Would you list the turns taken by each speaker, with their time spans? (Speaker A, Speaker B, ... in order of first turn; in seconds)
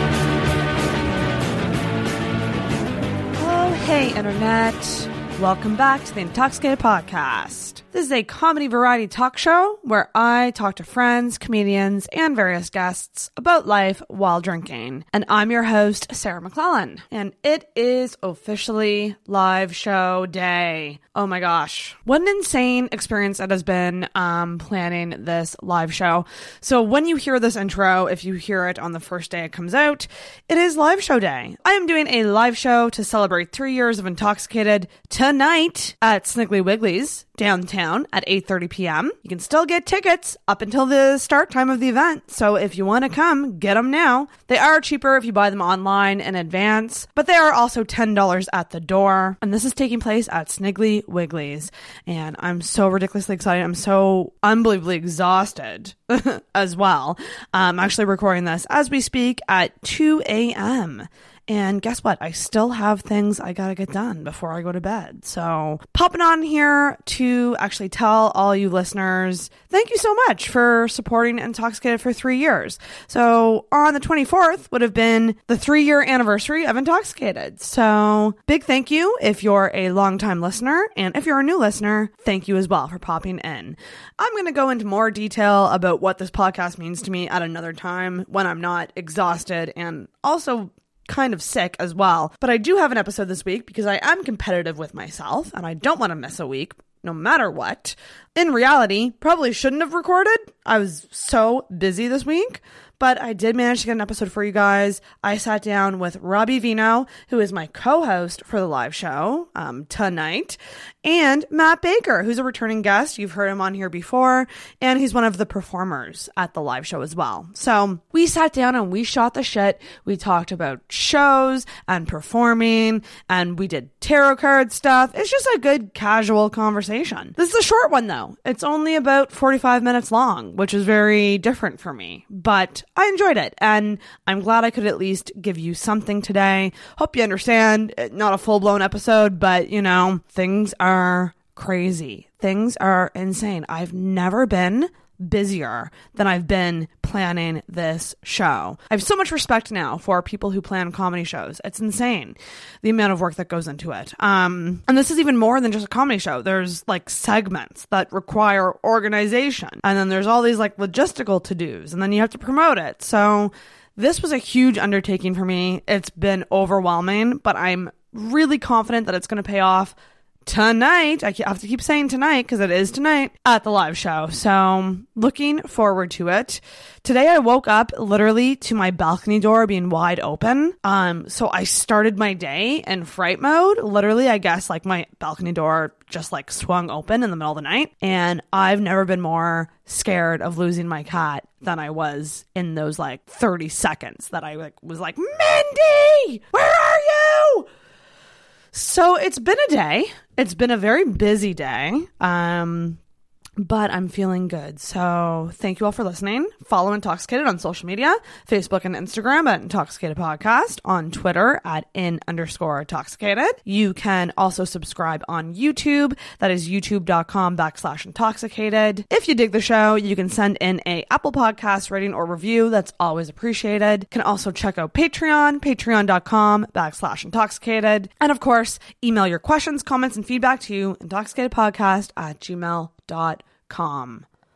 Speaker A: 3.4-169.9, 170.4-197.7, 198.7-203.0, 203.6-234.2